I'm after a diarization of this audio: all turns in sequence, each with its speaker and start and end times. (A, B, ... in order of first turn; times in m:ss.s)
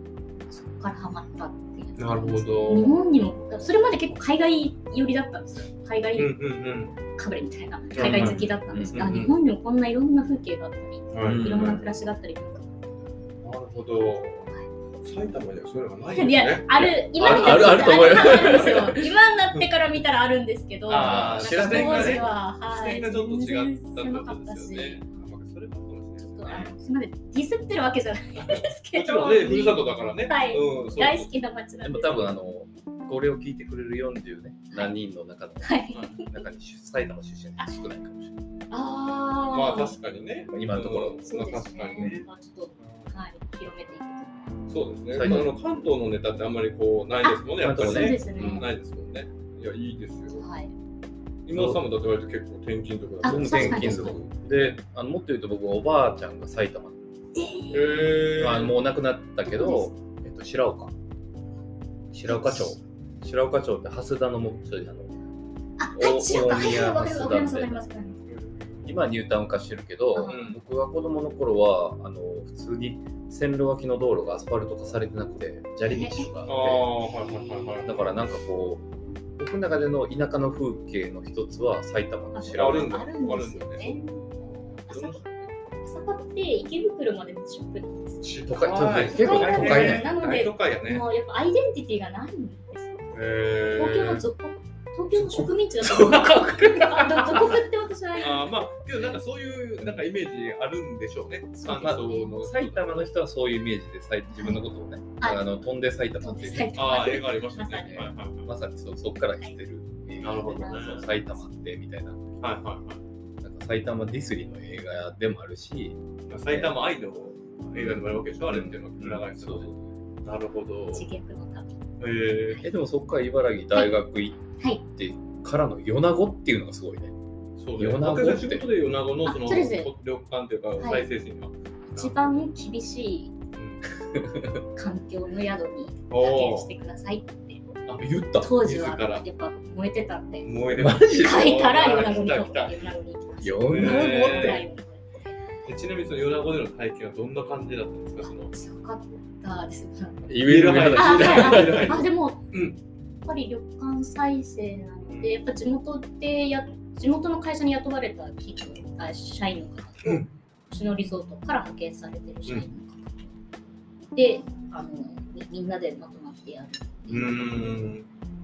0:00.5-0:06.4 A
0:02.0-0:02.9 B
0:06.2-0:07.0 B
0:07.1-0:13.2 A
0:07.9-0:09.1 C
0:08.0-0:09.3 B
0:11.1-0:11.8 B
0:11.2-0:11.8 C
0:13.4-0:14.5 B
0:13.8-0:14.7 A
0:15.0-0:17.8 B
0:16.1-0:25.3 A
0:16.8-0:19.1 C
0:20.9-0:26.7 B
0:20.9-0:22.3 C
0:26.2-0:32.4 A
0:28.4-0:31.3 B
0:31.8-0:38.4 C
0:35.6-0:36.2 A
0:38.7-0:40.0 A
0:39.5-0:42.2 B
0:40.5-0:41.2 C
0:41.2-0:44.6 A
0:44.7-0:50.4 B
0:45.1-0:45.5 C
0:47.2-0:48.7 A
0:47.6-0:48.7 C
0:50.3-0:50.7 A
0:51.5-0:54.8 B
0:51.5-0:51.8 C
0:53.2-0:54.2 A
0:53.2-0:57.0 C
0:57.4-0:58.2 A
0:57.7-0:58.8 B
0:58.3-1:00.9 C
0:59.4-0:59.9 A
1:02.1-1:05.2 C
1:02.3-1:02.8 A
1:05.8-1:08.2 A
1:05.9-1:07.8 C
1:08.3-1:09.0 B
1:08.8-1:16.9 C
1:10.2-1:10.5 A
1:10.3-1:10.6 B
1:15.8-1:16.3 A
1:16.5-1:17.9 B
1:17.6-1:17.9 A
1:17.8-1:18.9 C
1:19.4-1:23.0 C
1:22.3-1:24.2 A
1:22.5-1:25.5 B
1:24.9-1:25.2 A
1:25.8-1:28.3 A
1:28.2-1:31.1 B
1:28.5-1:30.1 C
1:29.0-1:33.1 A
1:33.1-1:34.3 B
1:33.8-1:38.6 A
1:35.1-1:35.5 B
1:36.0-1:36.7 C
1:38.2-1:43.0 B
1:41.6-1:42.4 A
1:41.6-1:46.9 C
1:44.3-1:44.6 A
1:45.2-1:45.5 A
1:46.2-1:48.0 A
1:46.8-1:48.5 B
1:47.9-1:52.6 C
1:50.2-1:51.1 B
1:50.4-1:51.4 A
1:52.4-1:53.0 B
1:53.4-1:56.8 C
1:56.3-2:01.1 B
1:57.8-1:59.7 C
2:00.9-2:01.8 A
2:02.0-2:02.6 B
2:02.6-2:07.2 C
2:03.7-2:04.0 A
2:07.6-2:12.4 B
2:07.8-2:08.7 C
2:09.2-2:09.9 A
2:10.8-2:11.1 A
2:11.9-2:13.3 A
2:13.6-2:13.9 B
2:14.0-2:14.6 C
2:14.7-2:17.6 A
2:16.1-2:16.7 B
2:17.9-2:19.2 B
2:18.0-2:18.5 C
2:18.4-2:20.5 A
2:20.4-2:22.8 B
2:20.8-2:21.6 C
2:21.1-2:25.4 A
2:23.4-2:24.6 C
2:23.6-2:24.6 B
2:25.7-2:28.5 B
2:28.2-2:30.3 A
2:30.3-2:32.0 C
2:30.4-2:32.8 B
2:30.9-2:32.4 A
2:33.2-2:43.3 A
2:35.0-2:35.3 B
2:44.1-2:47.8 A
2:47.1-2:48.1 B